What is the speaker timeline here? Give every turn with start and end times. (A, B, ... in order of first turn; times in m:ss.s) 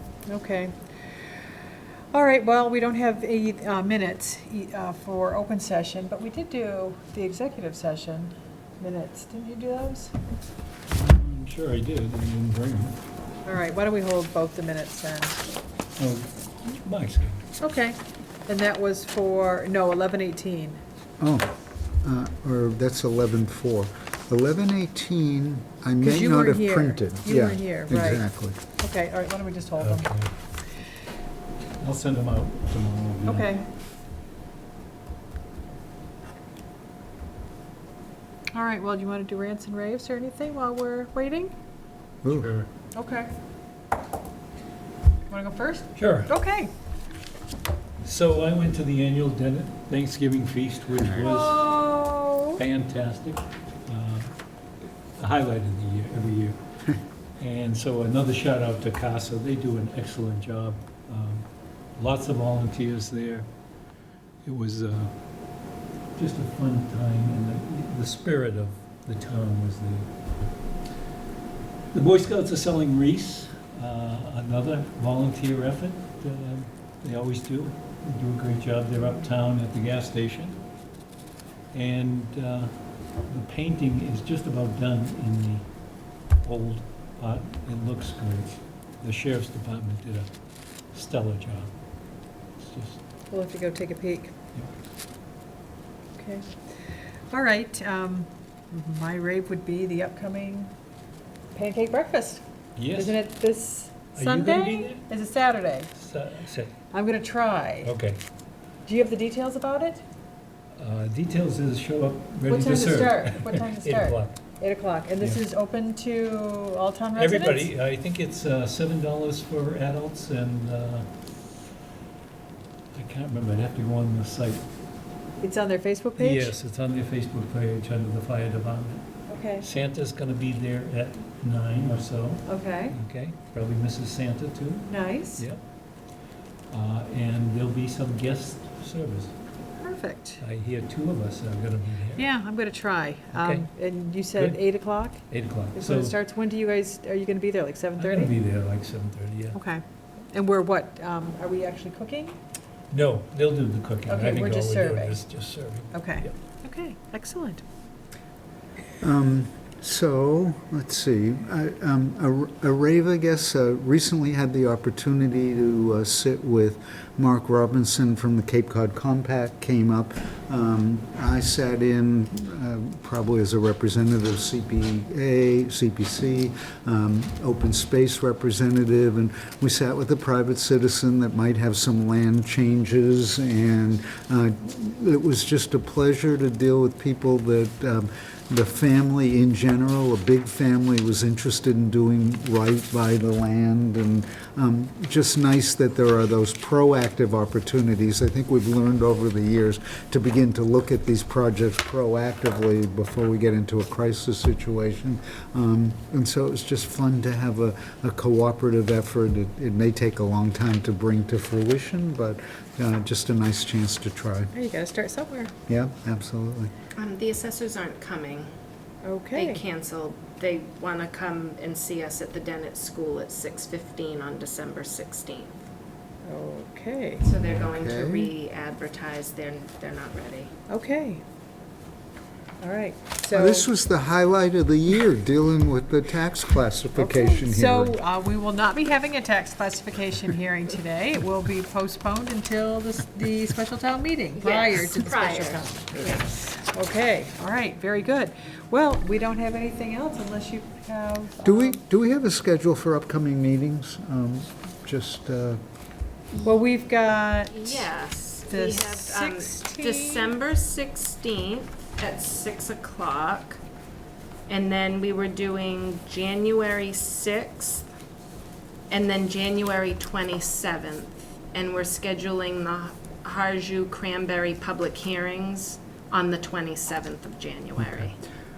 0:00.3-0:00.7 A
0:02.1-0:10.1 A
0:10.9-0:13.0 B
0:13.4-0:15.4 A
0:16.0-0:17.4 B
0:17.6-0:20.8 A
0:21.2-0:28.6 C
0:26.0-0:30.0 A
0:29.8-0:30.3 B
0:31.8-0:33.4 B
0:33.2-0:33.7 A
0:38.5-0:41.5 A
0:42.2-0:42.5 C
0:42.3-0:42.7 B
0:42.9-0:43.3 A
0:45.3-0:46.7 A
0:45.9-0:46.3 B
0:48.0-0:51.8 B
0:51.1-0:52.6 A
0:52.6-0:54.3 B
0:55.2-0:56.6 B
0:57.4-1:01.4 B
1:02.0-1:03.4 B
1:04.4-1:05.1 B
1:06.2-1:10.1 B
1:11.9-1:20.6 B
1:21.7-1:22.7 B
1:23.3-1:25.6 B
1:26.4-1:30.3 B
1:30.9-1:31.7 B
1:32.6-1:33.0 B
1:33.3-1:34.3 A
1:36.2-1:36.5 A
1:37.3-1:40.7 A
1:41.5-1:42.4 A
1:42.8-1:43.3 B
1:42.9-1:45.9 A
1:44.1-1:45.1 B
1:45.9-1:46.7 B
1:46.9-1:47.9 A
1:47.8-1:48.2 B
1:48.8-1:50.0 A
1:50.8-1:54.4 B
1:52.5-1:57.7 A
1:57.1-2:01.0 B
2:02.9-2:04.6 B
2:05.4-2:06.5 A
2:06.2-2:09.0 B
2:09.3-2:09.7 A
2:09.6-2:15.6 B
2:12.5-2:13.0 A
2:14.9-2:15.4 A
2:16.7-2:19.3 B
2:19.8-2:20.4 A
2:20.4-2:22.2 B
2:22.2-2:25.2 A
2:23.3-2:23.7 B
2:24.3-2:26.2 B
2:25.7-2:28.3 A
2:28.0-2:29.6 B
2:29.5-2:32.4 A
2:32.9-2:36.3 B
2:34.1-2:35.2 A
2:35.9-2:37.6 A
2:39.0-3:34.5 C
3:34.5-3:35.5 A
3:35.7-3:36.7 C
3:36.9-3:38.5 D
3:39.0-3:39.6 A
3:39.3-3:45.6 D
3:46.2-3:47.2 A
3:47.2-3:50.5 D
3:47.3-3:48.3 C
3:50.7-3:51.2 A
3:52.6-3:53.7 A
3:53.3-3:58.0 C
3:57.0-4:11.8 A
4:04.4-4:05.6 D
4:11.4-4:15.6 C
4:16.3-4:16.7 D
4:16.4-4:17.9 A
4:17.5-4:23.6 D
4:18.5-4:20.3 A
4:24.5-4:27.8 D
4:28.9-4:38.2 D